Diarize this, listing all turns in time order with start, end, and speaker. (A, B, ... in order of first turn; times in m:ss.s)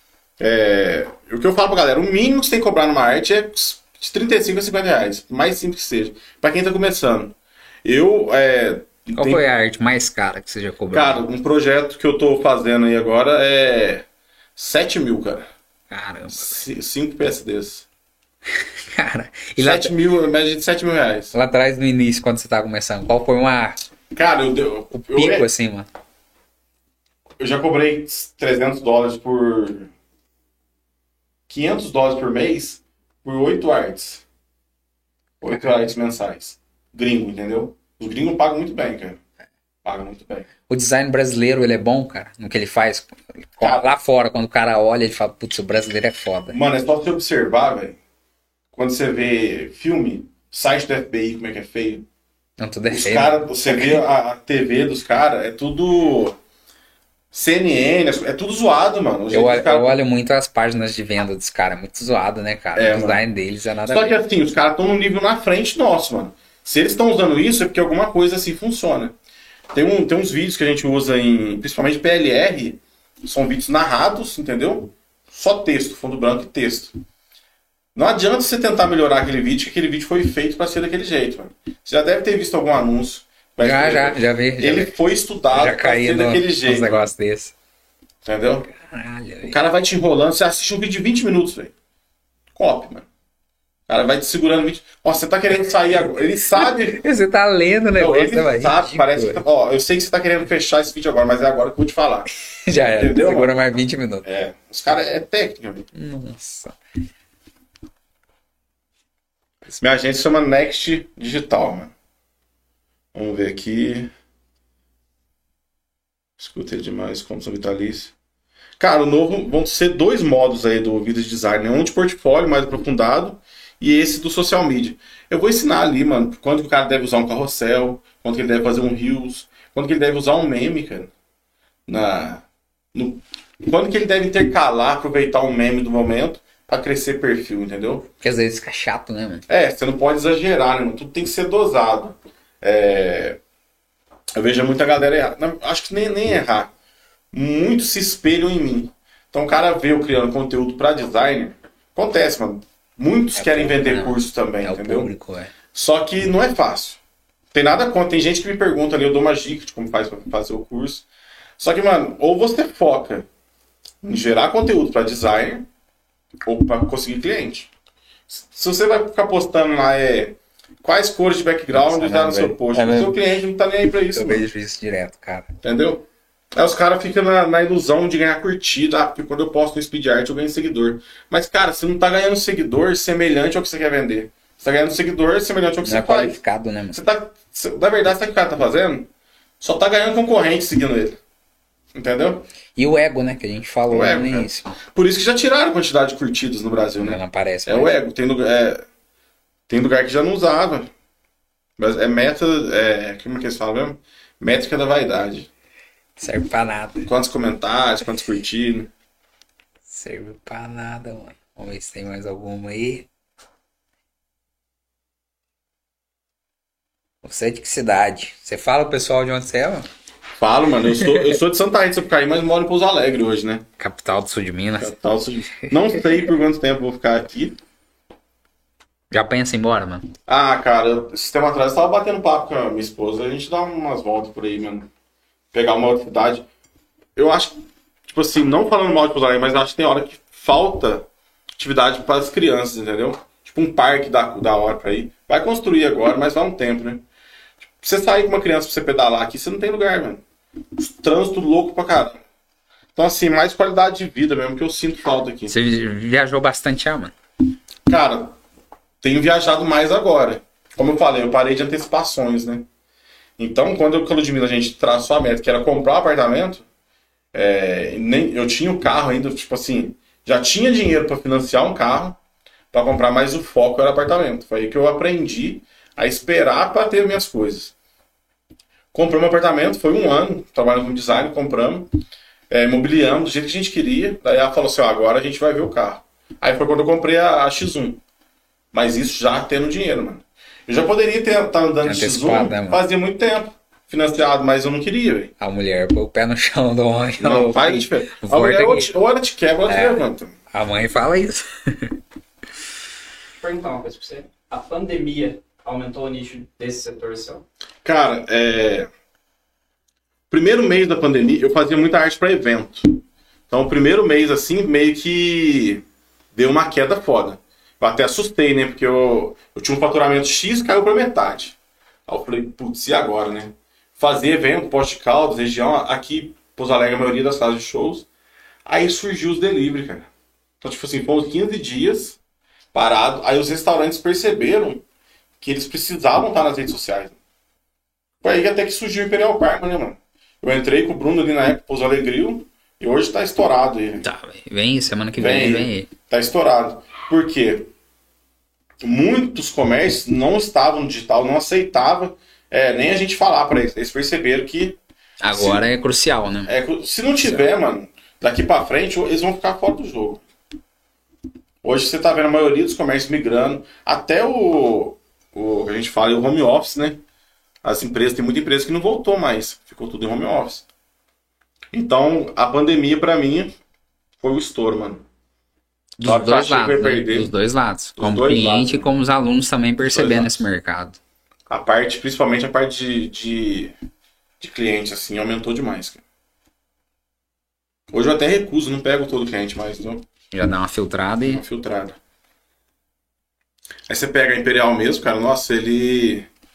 0:00.4-0:09.4 A
0:09.2-0:11.2 B
0:10.9-0:14.0 A
0:14.6-0:15.5 A
0:15.9-0:16.6 B
0:16.3-0:17.9 A
0:18.6-0:19.9 B
0:19.6-0:21.3 A
0:21.3-0:23.8 B
0:24.1-0:25.5 A
0:25.1-0:25.9 B
0:27.4-0:29.9 A
0:31.5-0:34.2 A
0:35.4-0:39.2 A
0:39.8-0:40.5 A
0:40.7-0:46.6 B
0:43.6-0:43.9 A
0:46.5-0:48.0 A
0:48.7-0:52.0 A
0:52.6-0:54.0 B
0:52.9-0:56.4 A
0:57.3-0:59.9 A
0:59.3-1:04.2 B
1:02.7-1:03.2 A
1:03.9-1:09.1 A
1:09.7-1:16.9 A
1:17.9-1:27.1 A
1:23.6-1:24.9 B
1:25.5-1:27.5 B
1:28.2-1:28.7 A
1:28.7-1:29.6 B
1:29.4-1:31.7 A
1:32.5-1:33.1 A
1:33.9-1:37.0 A
1:36.9-1:39.4 B
1:38.0-1:42.3 A
1:42.6-1:44.2 B
1:42.9-1:43.5 A
1:44.2-1:45.9 A
1:45.9-1:46.8 B
1:49.8-1:51.9 A
1:53.1-1:54.1 A
1:56.4-1:58.1 A
1:58.8-2:11.1 A
2:11.9-2:18.1 A
2:18.2-2:19.4 B
2:19.5-2:23.4 A
2:24.4-2:26.7 A
2:27.3-2:35.1 A
2:33.4-2:35.5 B
2:35.7-2:37.0 A
2:37.5-2:41.0 A
2:41.6-2:43.3 A
2:44.0-2:45.7 A
2:46.4-2:47.7 A
2:48.3-2:54.5 A
2:51.7-2:53.2 B
2:54.1-2:55.5 B
2:55.6-3:06.4 A
3:05.8-3:07.1 B
3:06.9-3:09.1 A
3:09.6-3:11.2 A
3:11.9-3:12.5 A
3:12.8-3:14.8 B
3:13.9-3:18.8 A
3:17.0-3:17.9 B
3:19.7-3:20.9 A
3:21.8-3:25.5 A
3:26.2-3:27.1 B
3:27.0-3:28.9 A
3:29.9-3:33.1 B
3:37.2-3:39.9 B
3:40.4-3:43.7 A
3:40.9-3:41.3 B
3:43.8-3:45.0 B
3:44.8-3:47.6 A
3:45.6-3:46.0 B
3:49.1-3:50.1 B
3:50.3-3:54.9 A
3:55.5-3:56.4 A
3:57.2-4:07.0 A
4:07.8-4:10.2 A
4:10.8-4:12.2 A
4:13.0-4:15.5 A
4:15.5-4:17.1 B
4:17.9-4:18.4 A
4:19.0-4:22.6 A
4:23.4-4:26.6 A
4:27.3-4:32.2 A
4:32.7-4:37.7 A
4:38.9-4:41.9 A
4:42.5-4:48.0 A
4:48.7-4:55.3 A
4:51.8-4:52.8 B
4:55.4-4:58.9 B
4:57.2-5:00.3 A
4:59.7-5:01.9 B
5:03.4-5:07.4 C
5:07.8-5:08.9 A
5:10.3-5:28.1 A
5:28.6-5:30.1 A
5:30.6-5:32.2 A
5:32.7-5:34.8 A
5:35.4-5:37.2 A
5:38.2-5:44.0 A
5:44.0-5:45.9 B
5:45.2-5:47.7 A
5:48.8-5:54.8 A
5:55.2-5:56.5 B
5:55.3-5:55.7 A
5:56.5-6:00.2 A
6:01.6-6:07.0 A
6:07.6-6:10.6 A
6:11.7-6:13.5 A
6:14.2-6:15.0 A
6:16.0-6:21.0 B
6:16.0-6:17.3 A
6:18.0-6:18.9 A
6:19.8-6:20.4 A
6:21.5-6:23.7 A
6:24.4-6:26.0 A
6:27.9-6:30.0 A
6:30.3-6:31.4 B
6:31.3-6:32.0 A
6:33.9-6:36.3 A